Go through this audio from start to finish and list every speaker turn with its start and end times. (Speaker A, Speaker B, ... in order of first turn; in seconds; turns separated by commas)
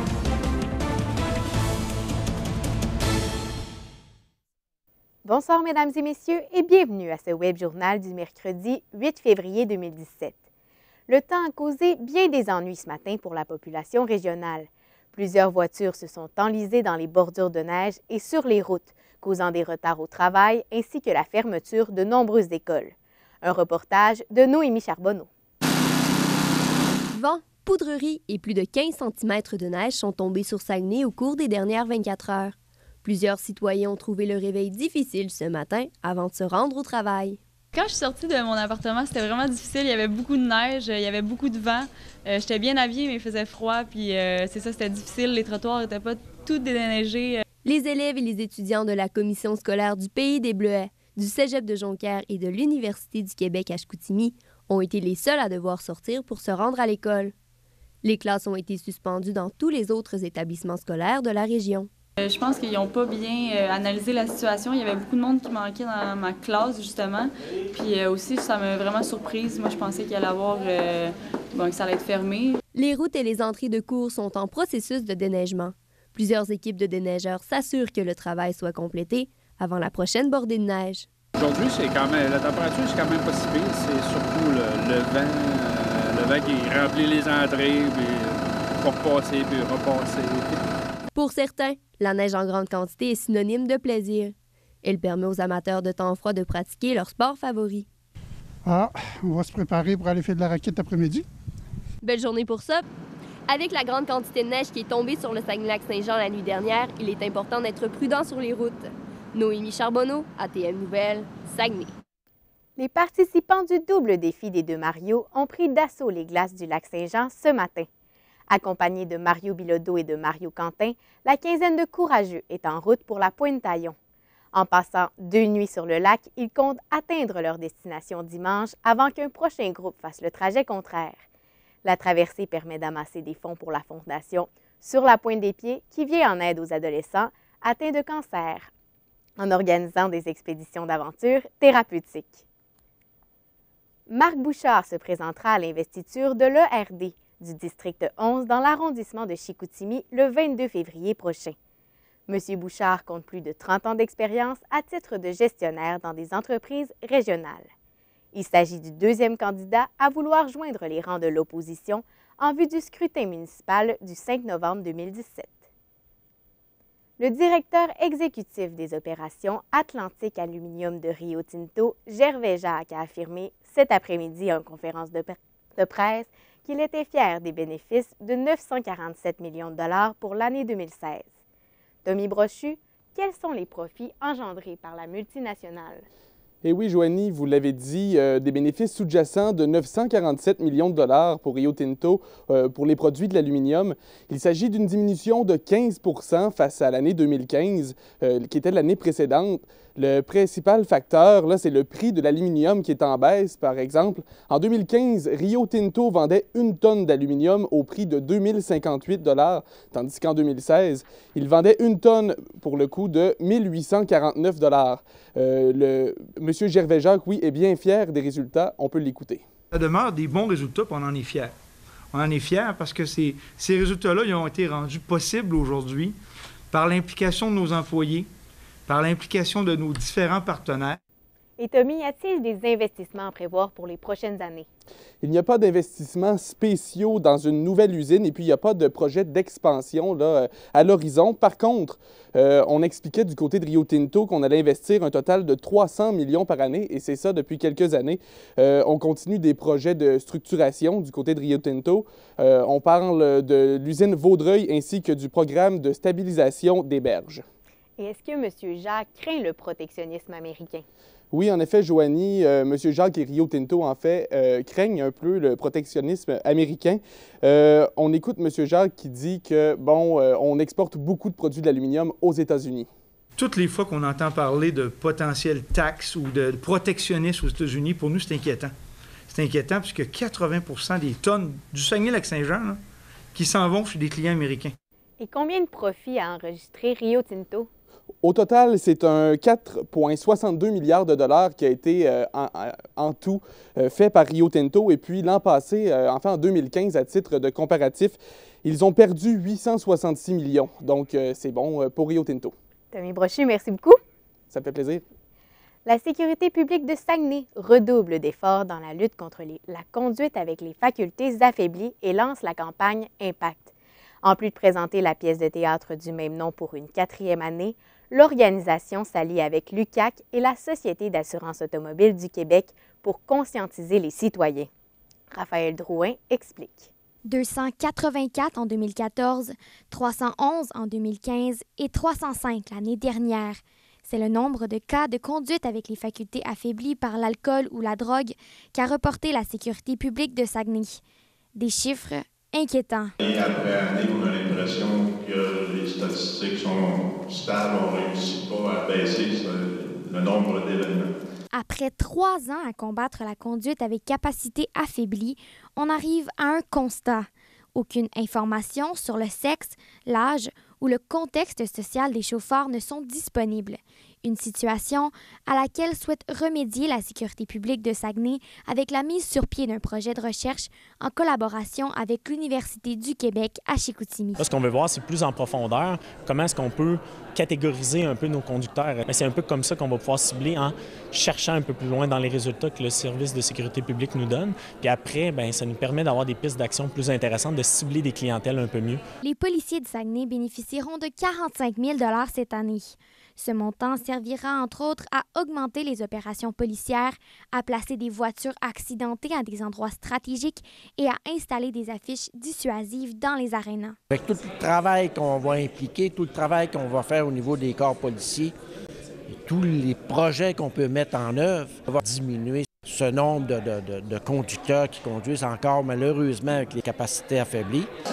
Speaker A: 5.2-10.4, Speaker A: 11.1-25.3, Speaker B: 27.1-37.4, Speaker C: 37.7-47.4, Speaker B: 47.6-57.3, Speaker B: 58.0-61.9, Speaker C: 62.2-72.6, Speaker B: 72.7-81.1, Speaker D: 81.4-90.4, Speaker B: 91.1-97.9, Speaker E: 98.7-101.2, Speaker B: 102.0-102.8, Speaker B: 103.5-111.9, Speaker A: 112.8-117.9, Speaker A: 118.5-124.0, Speaker A: 124.5-131.2, Speaker A: 131.8-138.7, Speaker A: 139.4-142.4, Speaker A: 144.1-151.6, Speaker A: 152.3-157.7, Speaker A: 158.3-165.6, Speaker A: 167.2-181.3, Speaker A: 182.0-186.1, Speaker F: 186.6-219.4, Speaker G: 219.7-221.5, Speaker G: 222.1-226.1, Speaker G: 226.7-228.3, Speaker G: 228.9-231.0, Speaker A: 231.6-234.7, Speaker F: 235.2-257.4, Speaker A: 258.0-260.8, Speaker F: 261.3-272.9, Speaker G: 273.4-278.7, Speaker G: 279.3-282.8, Speaker G: 283.3-284.7, Speaker A: 285.2-287.7, Speaker F: 288.2-302.5, Speaker A: 302.9-304.0, Speaker F: 304.5-305.0, Speaker A: 305.9-313.7, Speaker A: 314.2-324.7, Speaker A: 325.3-326.9, Speaker H: 327.2-341.0, Speaker H: 341.6-343.1, Speaker I: 343.2-351.1, Speaker H: 351.5-374.5, Speaker J: 374.4-389.0, Speaker H: 389.2-404.0, Speaker K: 404.1-408.5, Speaker K: 409.3-417.9